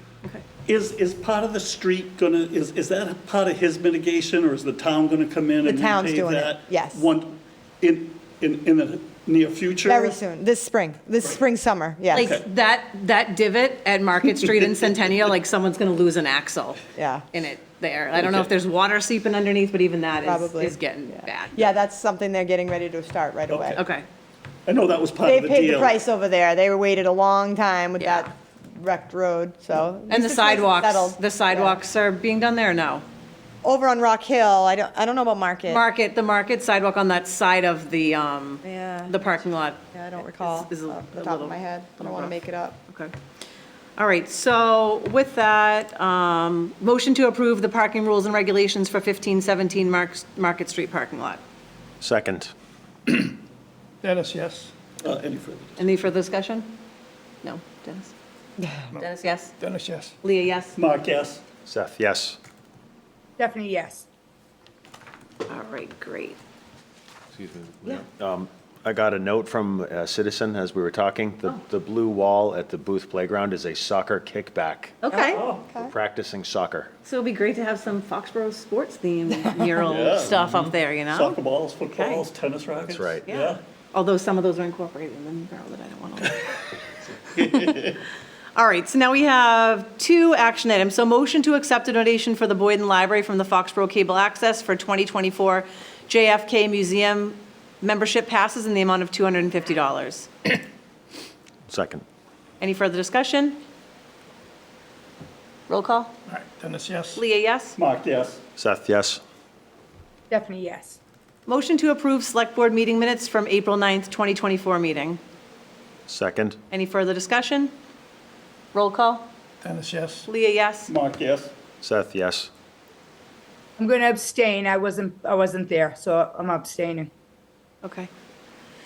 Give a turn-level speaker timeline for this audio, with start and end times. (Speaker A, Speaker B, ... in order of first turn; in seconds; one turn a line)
Speaker A: 0.7-10.2
Speaker B: 5.6-7.1
Speaker B: 9.8-12.4
Speaker C: 12.1-16.8
Speaker A: 12.1-12.4
Speaker B: 17.0-17.2
Speaker C: 17.3-21.7
Speaker B: 20.2-20.8
Speaker B: 21.5-23.8
Speaker A: 23.5-23.8
Speaker C: 23.8-24.1
Speaker A: 24.7-26.0
Speaker B: 25.2-31.8
Speaker C: 28.0-28.3
Speaker C: 30.1-33.0
Speaker B: 33.6-35.9
Speaker C: 35.7-43.1
Speaker B: 38.6-39.3
Speaker B: 39.8-42.8
Speaker C: 44.0-51.4
Speaker D: 52.0-52.5
Speaker E: 54.0-54.7
Speaker A: 54.6-55.9
Speaker C: 55.8-56.8
Speaker C: 57.4-58.1
Speaker C: 59.0-59.5
Speaker E: 59.6-60.1
Speaker C: 60.2-60.8
Speaker A: 60.8-61.4
Speaker D: 61.7-62.4
Speaker F: 63.4-64.1
Speaker C: 65.5-66.4
Speaker D: 67.3-75.0
Speaker C: 75.0-75.4
Speaker B: 75.1-75.9
Speaker A: 75.3-75.7
Speaker D: 75.8-76.9
Speaker C: 77.0-81.3
Speaker A: 79.8-80.5
Speaker A: 81.1-83.6
Speaker C: 82.0-82.2
Speaker D: 82.8-83.3
Speaker C: 83.3-86.6
Speaker A: 87.3-88.0
Speaker C: 88.5-100.3
Speaker D: 101.7-102.0
Speaker C: 102.6-103.6
Speaker C: 105.7-106.1
Speaker E: 106.3-107.2
Speaker C: 107.2-107.8
Speaker A: 107.8-108.4
Speaker D: 108.6-109.2
Speaker F: 110.3-111.0
Speaker C: 111.5-115.2
Speaker D: 116.1-116.6
Speaker C: 116.7-117.7
Speaker C: 118.7-119.3
Speaker E: 119.6-120.2
Speaker C: 120.3-120.9
Speaker A: 120.9-121.5
Speaker D: 121.8-122.5
Speaker F: 123.8-127.1
Speaker C: 127.8-128.1